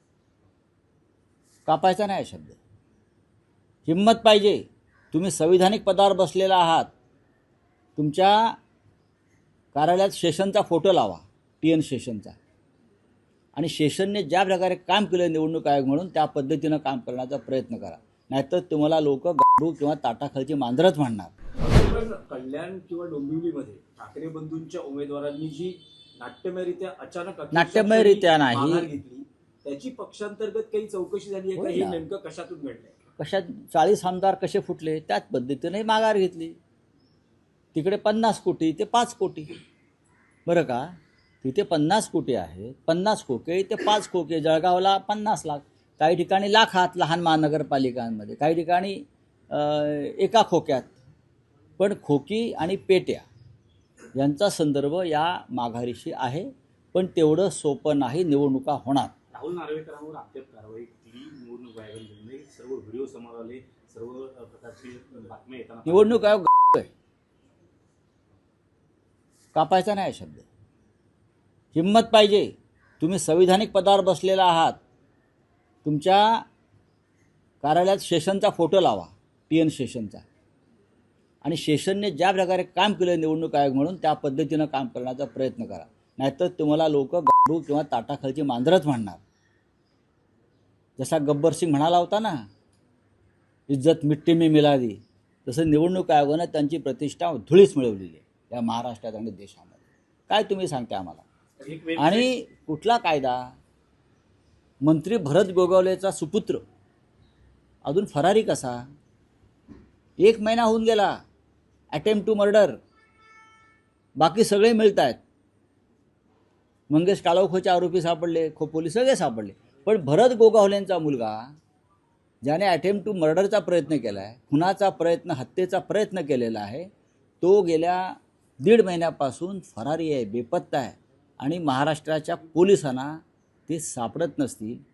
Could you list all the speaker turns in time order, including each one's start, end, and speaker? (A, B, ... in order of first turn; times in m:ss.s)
0:01.6-0:02.6 A
0:03.8-0:04.6 A
0:05.1-0:06.9 A
0:08.0-0:08.6 A
0:09.7-0:12.4 A
0:13.6-0:21.3 A
0:21.6-0:32.9 B
0:27.5-0:28.9 A
0:31.6-0:32.0 A
0:33.2-0:36.6 A
0:37.7-0:39.5 A
0:40.4-0:50.9 A
0:51.8-0:53.2 A
0:54.2-0:59.1 A
0:59.3-1:06.2 C
1:05.8-1:06.9 A
1:09.5-1:10.4 A
1:11.7-1:14.8 A
1:15.8-1:16.4 A
1:17.6-1:20.2 A
1:21.4-1:29.2 A
1:31.0-1:32.4 A
1:33.7-1:41.2 A
1:41.6-1:42.3 C
1:42.0-1:43.5 A
1:44.8-1:46.6 A
1:47.8-1:48.8 A
1:50.2-1:51.2 A
1:51.9-1:52.8 A
1:54.2-1:55.2 A
1:56.9-2:01.5 A
2:02.4-2:06.9 A
2:07.4-2:14.8 A